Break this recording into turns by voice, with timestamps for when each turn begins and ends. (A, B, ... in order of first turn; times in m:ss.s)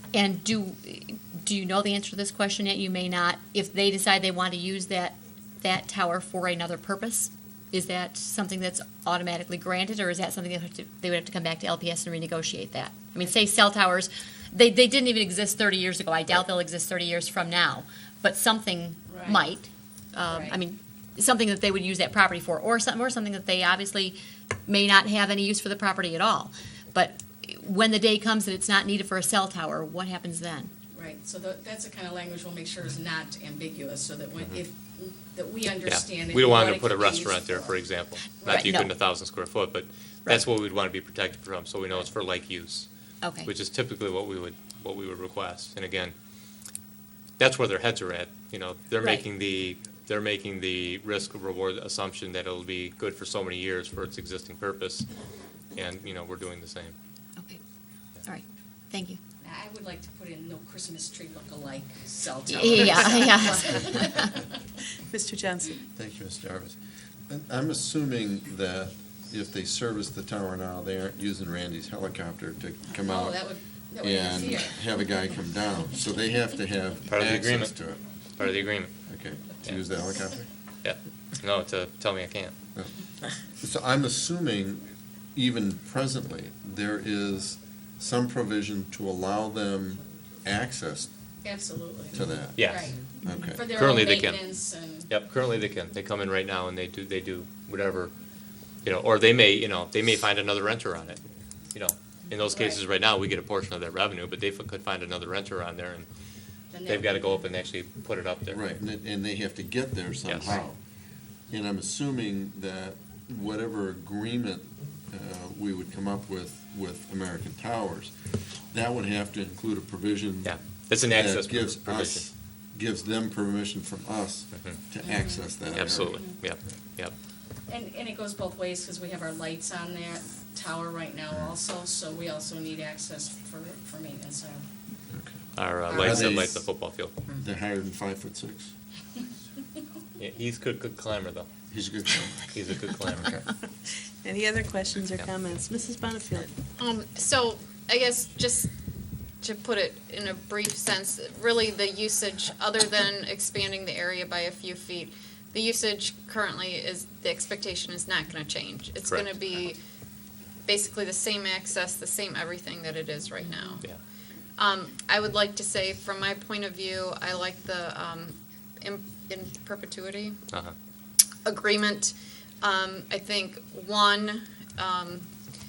0:00.1-0:30.7 A
0:19.1-0:19.5 B
0:20.2-0:20.6 B
0:30.9-0:37.8 B
0:35.8-0:42.9 C
0:38.4-0:38.8 B
0:38.5-0:38.9 A
0:43.2-0:43.5 A
0:43.4-0:46.1 C
0:47.4-0:55.0 C
0:55.7-0:56.9 C
0:58.2-0:59.2 A
0:59.4-1:04.6 B
1:02.5-1:04.3 A
1:05.1-1:05.7 D
1:05.9-1:06.7 E
1:07.3-1:13.4 E
1:13.0-1:14.8 B
1:14.0-1:18.0 E
1:17.1-1:17.7 C
1:18.4-1:18.9 C
1:19.1-1:20.5 E
1:20.8-1:22.5 C
1:23.5-1:31.1 E
1:31.4-1:35.1 B
1:32.1-1:33.6 E
1:32.6-1:33.0 C
1:33.6-1:34.4 C
1:35.1-1:38.1 C
1:38.8-1:41.2 C
1:41.7-1:46.1 C
1:42.5-1:42.8 B
1:46.7-1:47.5 B
1:46.9-1:48.6 C
1:48.5-1:50.8 E
1:50.3-1:50.6 C
1:51.5-1:58.1 E
1:58.7-2:00.6 E
2:00.4-2:02.2 C
2:01.1-2:06.2 E
2:04.5-2:04.8 C
2:05.0-2:05.4 B
2:05.7-2:07.1 C
2:07.7-2:14.6 B
2:15.6-2:17.1 C
2:15.9-2:16.4 B
2:15.9-2:16.7 E
2:17.3-2:18.7 E
2:20.2-2:21.5 C
2:21.7-2:23.4 E
2:22.5-2:23.4 C
2:24.2-2:26.5 D
2:26.8-2:28.7 F
2:29.4-2:39.8 F
2:39.0-2:39.3 C
2:40.6-2:43.8 F
2:44.6-2:50.4 F
2:51.4-2:55.3 F